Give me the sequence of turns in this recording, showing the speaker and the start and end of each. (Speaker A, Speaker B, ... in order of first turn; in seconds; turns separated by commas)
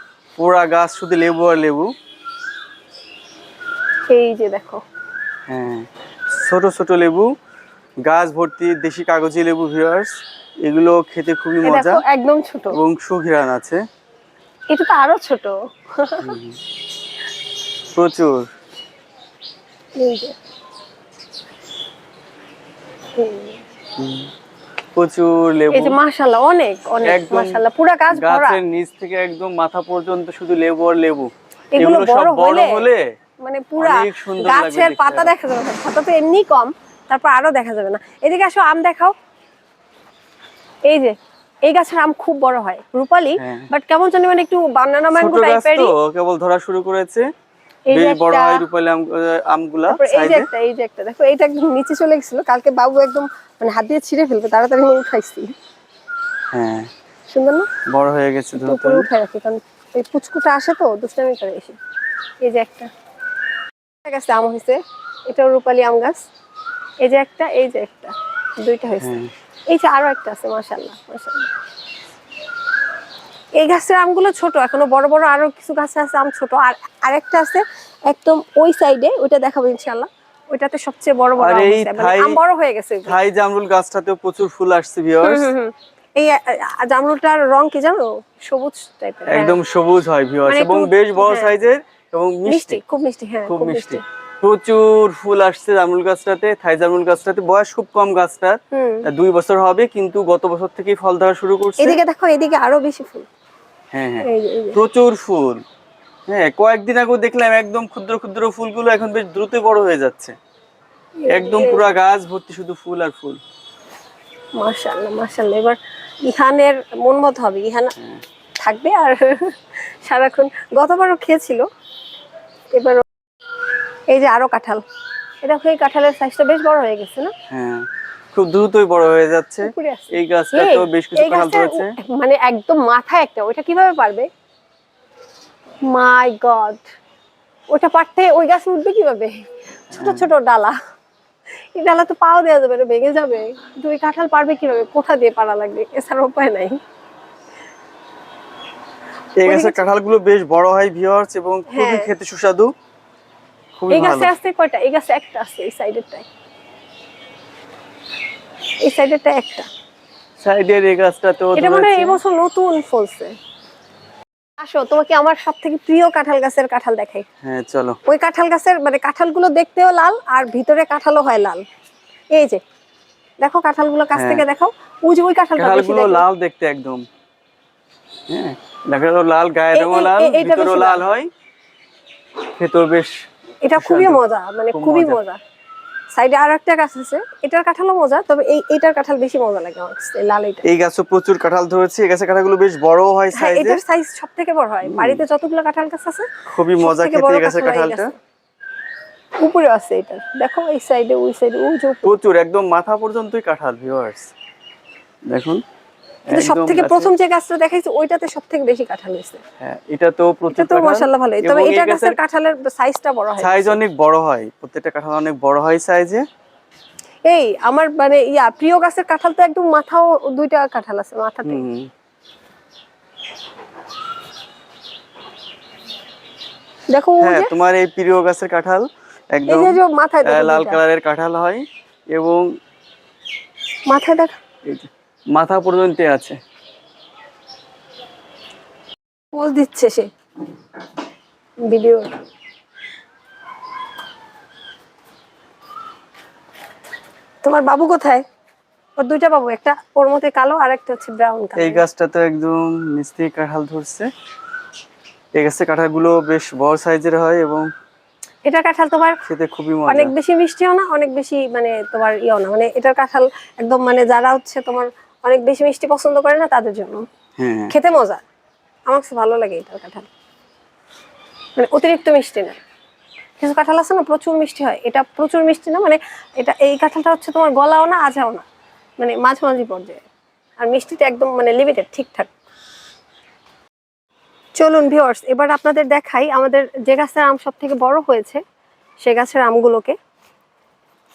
Speaker A: 0.4-1.9, Speaker B: 4.1-4.8, Speaker A: 5.5-7.3, Speaker A: 8.1-10.1, Speaker A: 10.6-12.0, Speaker B: 11.6-12.8, Speaker A: 12.7-13.8, Speaker B: 14.7-16.4, Speaker A: 16.2-16.6, Speaker A: 17.9-18.4, Speaker B: 20.0-20.3, Speaker B: 23.2-23.6, Speaker A: 24.0-24.3, Speaker A: 24.9-26.0, Speaker B: 25.7-28.6, Speaker A: 27.0-33.1, Speaker B: 31.7-32.9, Speaker B: 33.4-39.1, Speaker A: 33.8-35.3, Speaker B: 40.9-41.1, Speaker B: 41.6-45.9, Speaker A: 43.4-43.7, Speaker A: 45.1-47.3, Speaker B: 47.9-48.6, Speaker A: 47.9-50.5, Speaker B: 49.9-55.5, Speaker A: 56.5-56.9, Speaker B: 57.3-57.7, Speaker A: 57.9-59.1, Speaker B: 58.5-61.8, Speaker B: 62.4-62.9, Speaker B: 64.0-66.2, Speaker B: 67.0-69.1, Speaker A: 69.0-69.3, Speaker B: 69.7-71.5, Speaker B: 73.6-83.2, Speaker A: 81.4-82.4, Speaker A: 83.0-85.5, Speaker B: 85.2-89.6, Speaker A: 89.3-92.8, Speaker B: 90.5-91.5, Speaker B: 92.5-94.0, Speaker A: 93.5-102.0, Speaker B: 98.7-99.0, Speaker B: 101.8-103.3, Speaker A: 103.9-105.6, Speaker B: 104.2-104.8, Speaker A: 106.3-110.3, Speaker B: 111.2-111.9, Speaker A: 111.3-113.4, Speaker B: 114.6-117.9, Speaker B: 118.6-121.6, Speaker B: 122.7-123.0, Speaker B: 124.1-124.8, Speaker B: 125.4-127.3, Speaker A: 127.5-131.9, Speaker B: 129.6-134.3, Speaker B: 135.9-136.8, Speaker B: 137.7-140.8, Speaker A: 139.9-140.3, Speaker B: 141.7-146.8, Speaker A: 149.4-152.7, Speaker B: 149.4-149.8, Speaker B: 151.7-152.1, Speaker A: 153.8-154.3, Speaker B: 153.9-156.2, Speaker B: 158.8-159.7, Speaker A: 160.4-162.2, Speaker B: 161.6-163.3, Speaker B: 164.6-167.2, Speaker A: 167.4-168.0, Speaker B: 168.1-171.6, Speaker B: 172.3-172.6, Speaker B: 173.4-176.2, Speaker A: 174.1-174.4, Speaker A: 175.6-177.0, Speaker A: 178.3-181.3, Speaker B: 179.7-181.0, Speaker A: 182.6-183.1, Speaker B: 183.7-185.4, Speaker A: 183.8-184.2, Speaker A: 184.7-185.2, Speaker B: 186.2-190.6, Speaker A: 190.6-193.8, Speaker B: 193.3-196.3, Speaker A: 194.8-195.2, Speaker A: 196.5-198.1, Speaker B: 196.8-198.1, Speaker B: 199.4-202.1, Speaker A: 202.0-204.3, Speaker A: 205.3-205.6, Speaker A: 206.3-207.1, Speaker B: 206.3-209.4, Speaker A: 209.6-212.2, Speaker B: 210.5-213.8, Speaker A: 213.4-216.2, Speaker B: 217.2-221.7, Speaker A: 221.4-221.9, Speaker B: 226.9-227.5, Speaker A: 227.2-232.4, Speaker B: 229.5-230.8, Speaker B: 233.9-234.3, Speaker A: 234.7-236.4, Speaker B: 239.3-240.1, Speaker B: 241.7-242.1, Speaker B: 247.4-248.2, Speaker B: 249.0-251.8, Speaker A: 251.6-254.1, Speaker A: 255.3-257.7, Speaker B: 258.4-259.1, Speaker A: 259.3-260.1, Speaker B: 259.9-267.0, Speaker A: 267.4-267.7, Speaker B: 267.7-268.2, Speaker B: 268.9-270.1, Speaker B: 271.6-272.6, Speaker B: 273.4-278.4, Speaker B: 279.0-280.0, Speaker B: 280.6-282.3, Speaker B: 284.6-288.4, Speaker B: 289.0-289.9